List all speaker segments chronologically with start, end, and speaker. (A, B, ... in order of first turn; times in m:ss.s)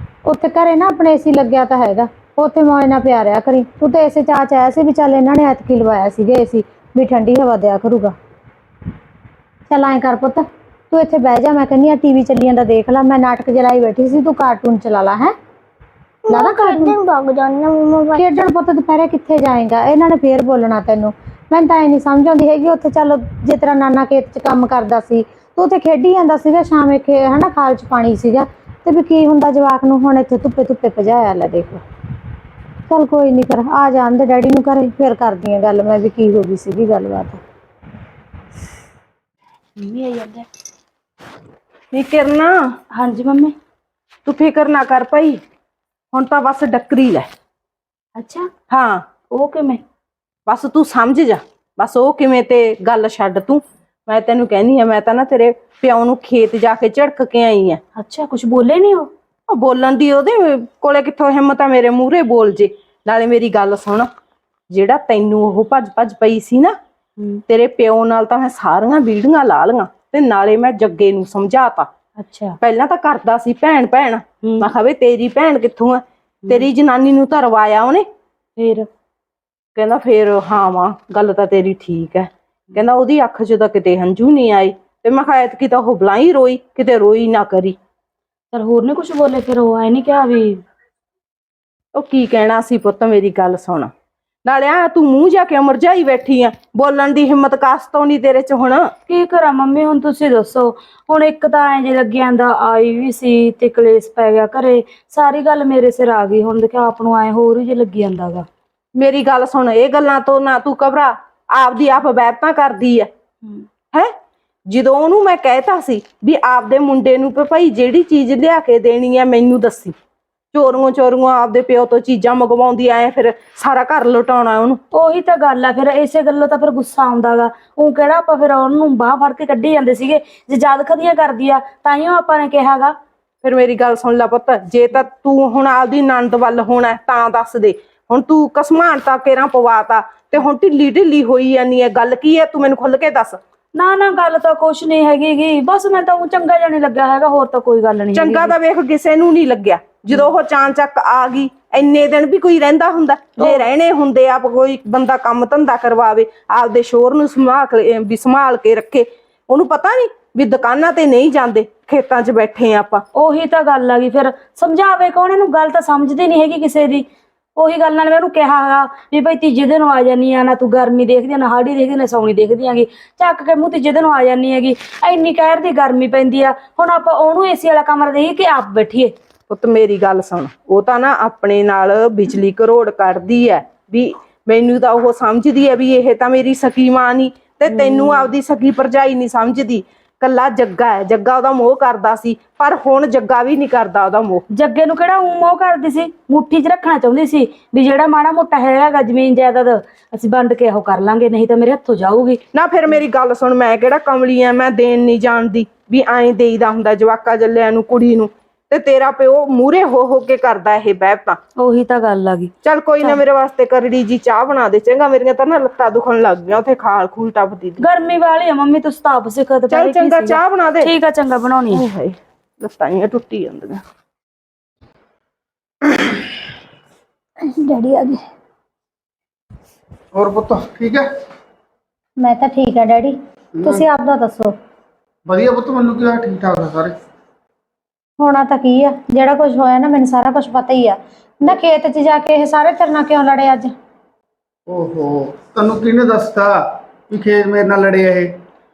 0:00.2-0:08.1 A
0:09.7-0:15.3 A
0:16.2-0:18.2 B
0:16.3-0:16.9 A
0:18.2-0:31.8 A
0:32.9-0:37.4 A
0:39.8-0:40.5 C
0:41.9-0:42.8 D
0:42.9-0:43.5 C
0:44.2-0:45.4 D
0:46.1-0:47.3 D
0:48.2-0:48.5 C
0:48.7-0:49.1 D
0:49.3-0:49.8 C
0:50.5-0:57.8 D
0:58.0-0:59.1 C
0:59.5-1:04.1 D
1:04.7-1:06.8 D
1:07.5-1:11.9 D
1:12.2-1:12.6 C
1:12.6-1:18.1 D
1:14.4-1:14.7 C
1:18.6-1:18.9 C
1:19.8-1:27.8 D
1:28.5-1:30.6 C
1:31.9-1:33.9 D
1:34.4-1:38.9 D
1:39.1-1:48.4 C
1:49.0-1:53.1 D
1:54.7-2:00.0 D
2:00.5-2:04.8 D
2:04.9-2:12.9 C
2:13.4-2:23.4 D
2:23.7-2:28.5 C
2:28.1-2:43.0 D
2:33.4-2:33.7 C
2:43.1-2:59.1 C
2:59.5-3:14.4 D
3:07.7-3:08.3 C
3:14.5-3:22.4 C
3:22.5-3:31.4 D
3:31.6-3:33.2 C
3:32.6-3:37.8 D
3:37.8-3:41.8 C
3:39.7-3:40.9 D
3:41.7-3:43.8 D
3:47.4-3:48.2 A
3:50.1-3:51.1 E
3:52.2-3:54.6 A
3:53.6-3:53.8 E
3:55.3-3:57.0 E
3:58.2-4:03.7 A
4:04.7-4:08.4 E